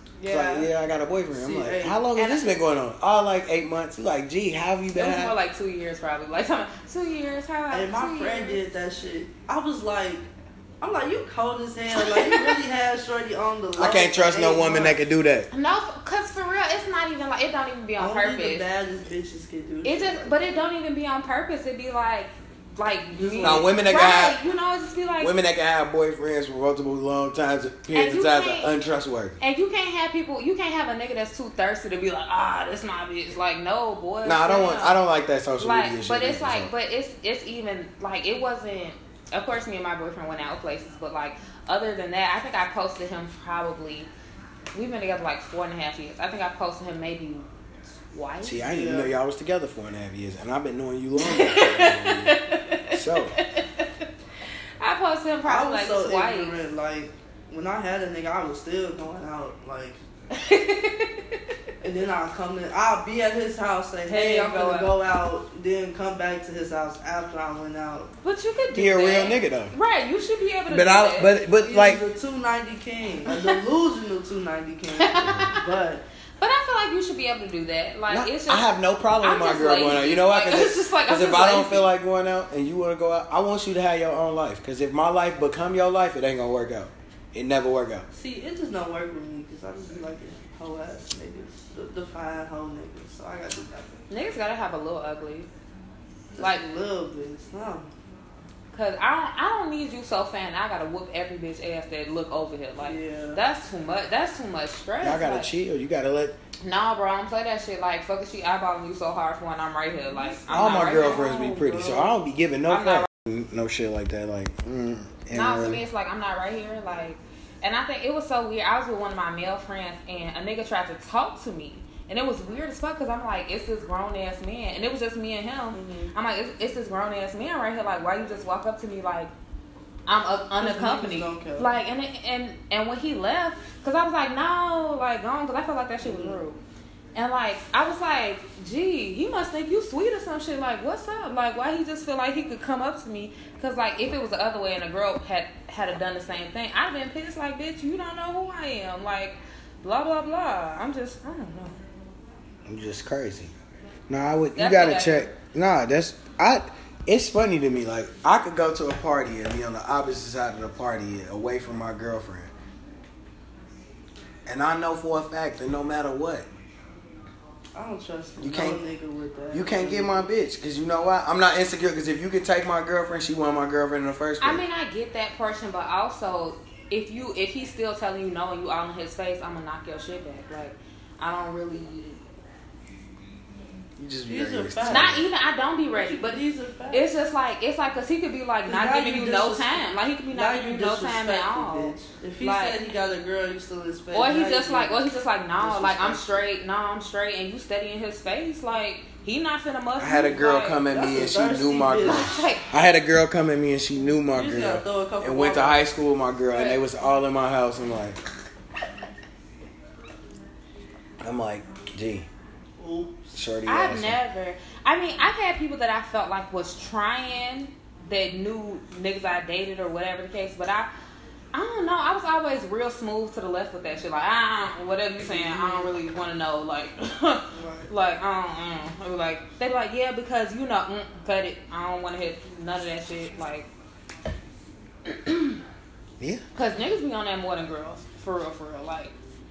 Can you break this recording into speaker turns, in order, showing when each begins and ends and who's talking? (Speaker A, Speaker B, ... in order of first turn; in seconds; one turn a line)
Speaker A: 0.2-0.7
Speaker B: 0.3-5.3
Speaker C: 1.3-2.0
Speaker A: 2.1-2.5
Speaker A: 4.9-8.6
Speaker C: 7.7-10.3
Speaker C: 10.8-15.0
Speaker A: 12.0-12.6
Speaker B: 13.8-15.5
Speaker A: 15.5-18.6
Speaker C: 18.0-20.6
Speaker A: 19.8-25.3
Speaker C: 23.1-23.8
Speaker B: 23.4-24.4
Speaker B: 25.2-29.4
Speaker A: 27.9-28.7
Speaker A: 29.4-35.0
Speaker B: 34.2-36.7
Speaker A: 35.6-44.1
Speaker A: 44.7-47.5
Speaker A: 48.1-48.6
Speaker B: 48.4-52.4
Speaker C: 48.6-49.1
Speaker A: 51.2-53.9
Speaker B: 52.9-53.4
Speaker A: 54.8-56.6
Speaker C: 55.4-60.0
Speaker A: 60.3-61.4
Speaker C: 61.8-68.1
Speaker A: 64.1-64.9
Speaker A: 68.2-71.3
Speaker B: 68.7-69.7
Speaker B: 70.7-72.0
Speaker C: 71.6-76.0
Speaker A: 73.3-73.6
Speaker A: 75.0-75.8
Speaker B: 75.2-75.5
Speaker A: 76.4-78.7
Speaker B: 78.1-88.0
Speaker A: 79.2-81.9
Speaker C: 88.1-94.0
Speaker A: 94.1-95.5
Speaker C: 96.3-97.9
Speaker A: 96.4-96.6
Speaker A: 98.7-105.5
Speaker C: 102.8-103.4
Speaker B: 105.0-106.4
Speaker A: 106.6-111.3
Speaker C: 110.1-112.1
Speaker B: 110.5-115.8
Speaker A: 112.7-113.1
Speaker A: 115.3-129.3
Speaker C: 125.7-126.1
Speaker A: 130.1-136.6
Speaker C: 130.6-131.7
Speaker C: 136.0-136.4
Speaker A: 137.1-151.8
Speaker B: 152.7-153.5
Speaker B: 154.1-162.5
Speaker A: 154.6-155.3
Speaker B: 164.4-166.5
Speaker C: 167.7-170.3
Speaker B: 168.4-168.8
Speaker B: 169.5-174.6
Speaker A: 174.4-182.2
Speaker B: 184.0-185.2
Speaker C: 184.3-185.2
Speaker A: 184.8-186.4
Speaker C: 185.9-187.1
Speaker A: 186.9-192.8
Speaker C: 188.7-195.0
Speaker A: 194.1-200.8
Speaker C: 195.6-196.4
Speaker B: 200.0-208.2
Speaker C: 200.9-202.4
Speaker A: 202.0-202.7
Speaker C: 204.3-205.8
Speaker A: 206.5-206.8
Speaker B: 211.2-212.3
Speaker C: 212.8-213.4
Speaker B: 213.3-214.2
Speaker A: 213.7-220.9
Speaker A: 221.5-233.7
Speaker C: 225.2-225.9
Speaker C: 227.5-227.9
Speaker A: 235.1-235.6
Speaker A: 236.5-239.1